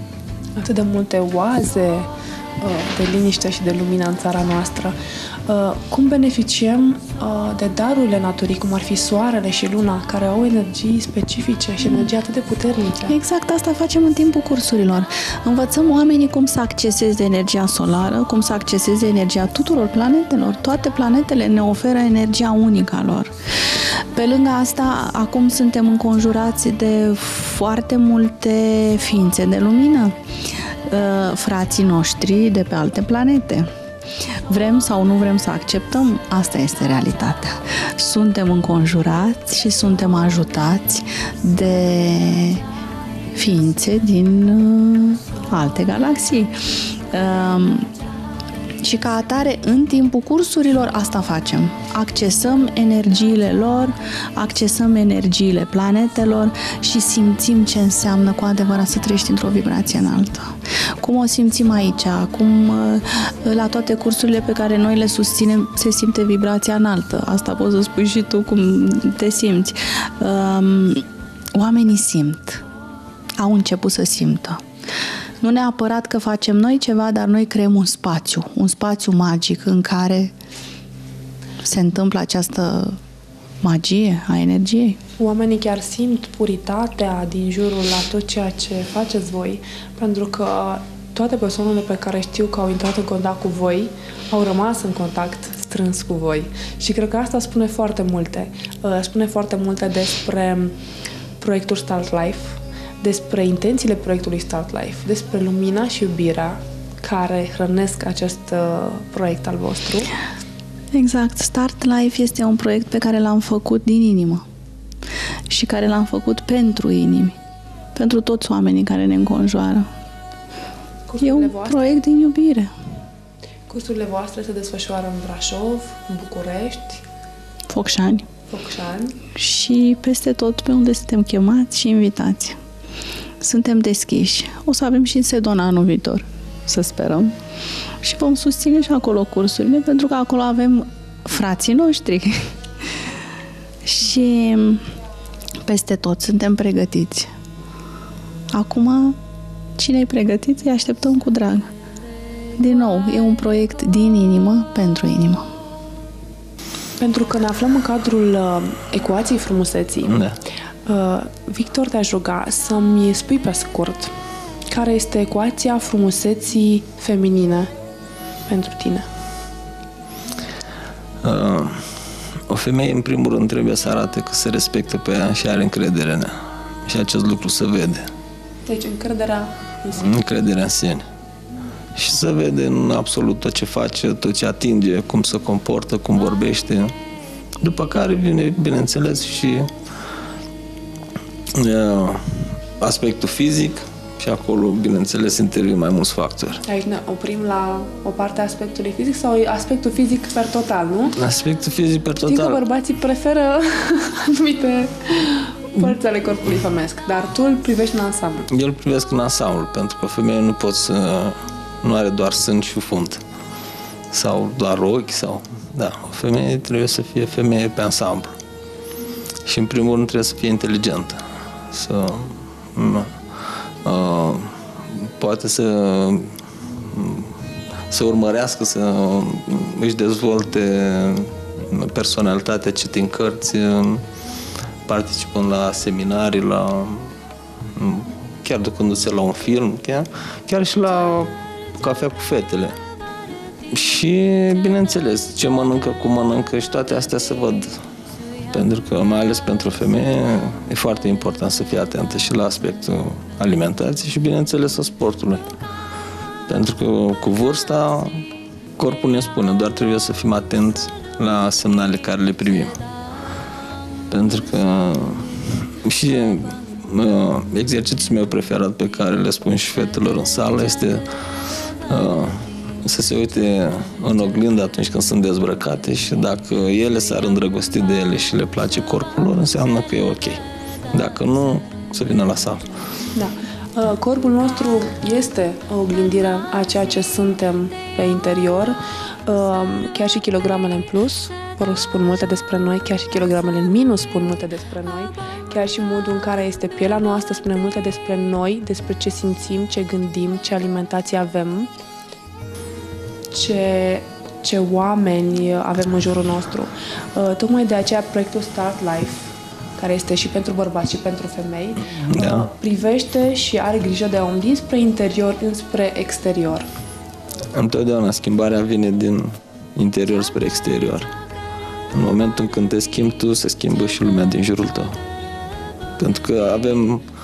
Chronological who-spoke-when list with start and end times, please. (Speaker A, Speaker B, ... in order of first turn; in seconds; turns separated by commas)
Speaker A: 0.6-13.2, Speaker B: 13.1-30.2, Speaker B: 30.9-33.7, Speaker B: 34.5-42.6, Speaker B: 43.3-47.9, Speaker B: 48.8-72.6, Speaker B: 73.4-74.6, Speaker B: 75.4-80.3, Speaker B: 81.6-83.0, Speaker B: 83.6-85.0, Speaker A: 85.2-100.8, Speaker A: 101.4-110.1, Speaker B: 110.9-114.5, Speaker B: 115.5-117.4, Speaker B: 118.0-119.9, Speaker A: 121.1-121.9, Speaker B: 121.2-122.7, Speaker A: 123.7-127.0, Speaker B: 127.7-128.3, Speaker A: 128.5-129.2, Speaker B: 129.3-132.6, Speaker B: 133.4-137.4, Speaker B: 138.0-142.5, Speaker B: 143.8-144.9, Speaker B: 145.6-147.3, Speaker B: 148.5-149.2, Speaker B: 149.8-151.7, Speaker B: 152.6-155.5, Speaker A: 157.0-160.3, Speaker C: 160.1-160.3, Speaker A: 160.9-164.1, Speaker A: 164.7-167.7, Speaker A: 168.5-169.1, Speaker C: 171.2-171.9, Speaker C: 172.5-178.1, Speaker A: 178.7-180.1, Speaker C: 180.0-181.1, Speaker C: 181.9-186.9, Speaker C: 187.6-189.7, Speaker C: 191.5-196.6, Speaker A: 196.7-201.2, Speaker C: 201.2-202.6, Speaker A: 202.2-208.5, Speaker C: 208.5-213.2, Speaker C: 214.1-218.3, Speaker C: 219.4-226.4, Speaker C: 226.9-227.3, Speaker C: 227.9-234.0, Speaker C: 234.9-237.1, Speaker C: 237.8-242.8, Speaker C: 243.7-247.7, Speaker C: 248.5-255.4, Speaker C: 256.5-258.2, Speaker C: 258.8-262.8, Speaker C: 264.1-271.0, Speaker C: 271.9-280.4, Speaker C: 280.9-282.7, Speaker A: 283.1-301.7, Speaker A: 303.3-316.7, Speaker C: 312.1-312.5, Speaker C: 317.5-321.1, Speaker C: 321.9-325.0, Speaker C: 326.0-327.0